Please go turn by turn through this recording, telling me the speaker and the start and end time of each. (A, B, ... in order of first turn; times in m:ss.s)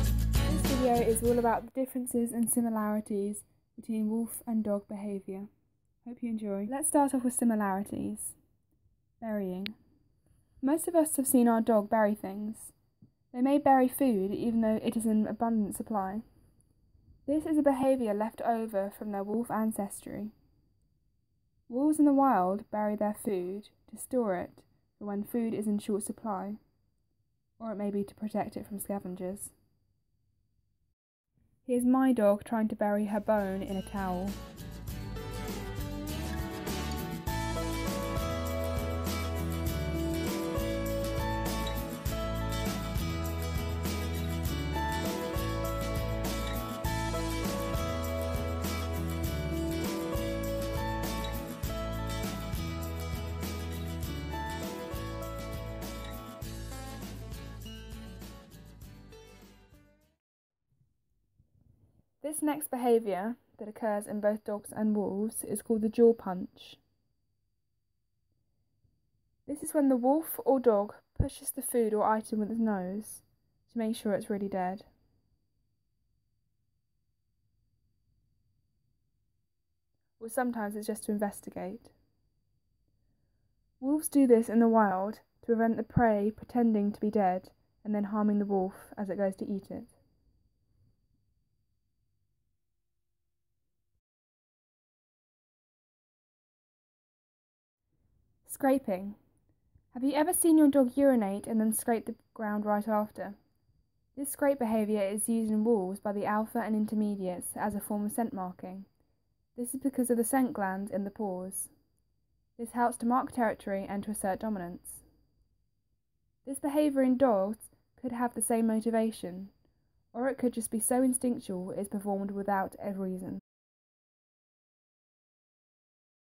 0:00.4-0:05.5 A
0:06.0-0:08.4 A
0:09.2-0:09.8 A
0:10.6-0:12.7 A
0:13.3-0:16.2 A
0:17.3-0:20.3 A
0:21.7-0:26.6 A
0:27.6-0:29.5 A
0:31.7-0:34.4 A
1:02.2-1:06.8 A
1:09.5-1:14.9 A
1:20.2-1:21.9 A
1:23.8-1:30.0 A
1:38.4-1:39.2 A
1:39.9-1:43.4 A
1:44.2-1:48.9 A
1:49.6-1:51.7 A
1:52.6-1:55.0 A
1:56.4-1:59.5 A
2:00.1-2:03.4 A